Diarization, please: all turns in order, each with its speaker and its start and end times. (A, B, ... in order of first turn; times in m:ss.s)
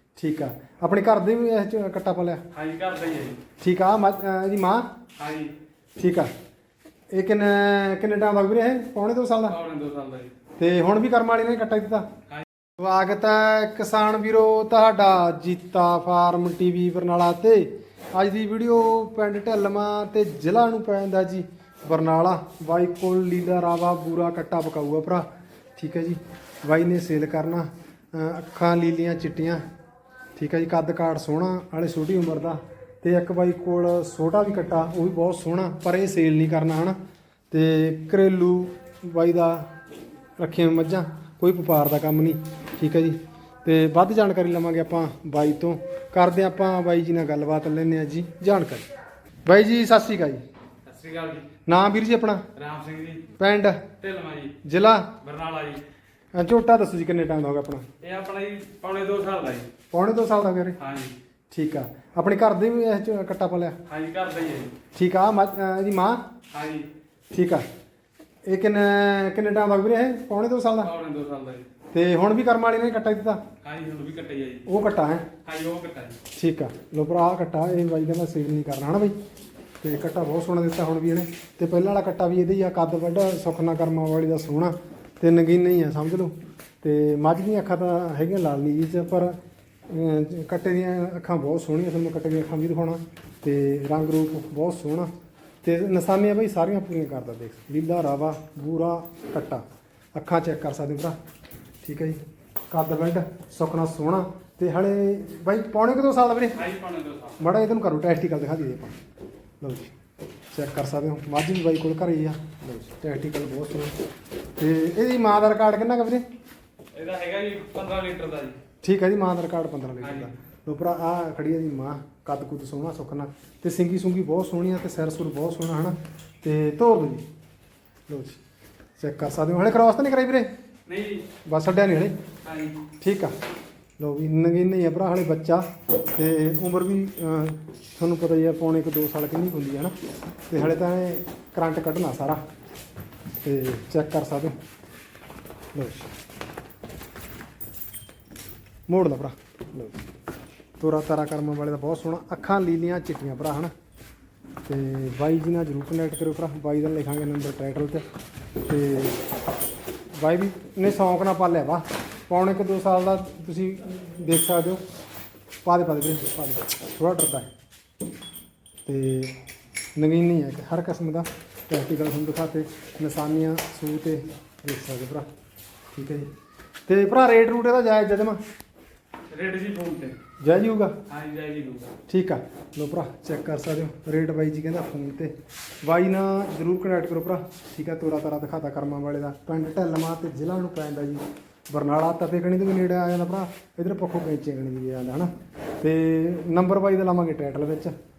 0:00.2-0:02.4 A
0:02.5-0:03.4 B
0:03.6-0:04.9 A
0:05.2-0:05.5 B
0:06.0-0:06.3 A
0:07.1-0:09.6 A
0:09.5-0:10.3 B
0:10.6-0:12.1 A
0:12.8-0:29.6 A
0:30.4-0:37.0 A
0:37.5-0:39.7 A
0:40.4-0:48.9 A
0:49.4-0:50.4 A
0:50.8-0:51.5 B
0:51.7-0:52.4 A
0:52.6-0:53.3 B
0:53.4-0:53.9 A
0:54.0-0:54.6 B
0:54.6-0:55.2 A
0:55.2-0:55.8 B
0:56.3-0:57.9 A
0:58.0-0:59.7 B
0:59.9-1:00.8 A
1:00.8-1:01.1 B
1:01.5-1:03.8 A
1:03.9-1:04.8 B
1:05.0-1:06.2 A
1:06.5-1:06.9 B
1:07.3-1:07.6 A
1:08.4-1:10.9 A
1:10.8-1:11.7 B
1:11.9-1:13.4 A
1:13.6-1:14.7 B
1:14.7-1:15.3 A
1:15.4-1:16.2 B
1:16.3-1:19.1 A
1:19.8-1:29.4 A
1:29.9-1:35.1 A
1:35.6-1:39.6 A
1:40.1-1:41.2 A
1:41.8-1:46.6 A
1:46.5-1:47.4 B
1:47.4-1:49.0 A
1:49.6-1:49.9 A
1:50.5-1:53.9 A
1:54.6-1:56.2 A
1:56.9-1:58.6 B
1:58.8-2:07.2 A
2:00.0-2:00.3 B
2:08.1-2:08.4 A
2:09.0-2:10.5 A
2:10.9-2:11.3 B
2:11.4-2:12.2 A
2:12.4-2:12.8 B
2:13.0-2:13.3 A
2:14.0-2:19.9 A
2:20.5-2:22.4 A
2:23.4-2:24.6 A
2:25.7-2:26.1 A
2:28.9-2:30.0 A
2:30.8-2:33.7 A
2:34.6-2:38.0 A
2:38.6-2:39.2 A
2:40.1-2:44.8 A
2:45.6-2:47.5 A
2:48.8-2:49.3 A
2:50.0-2:55.3 A
2:55.9-2:56.3 A
2:56.9-2:58.4 A
2:59.3-3:00.2 B
3:00.4-3:01.0 A
3:01.1-3:02.0 B
3:02.1-3:17.9 A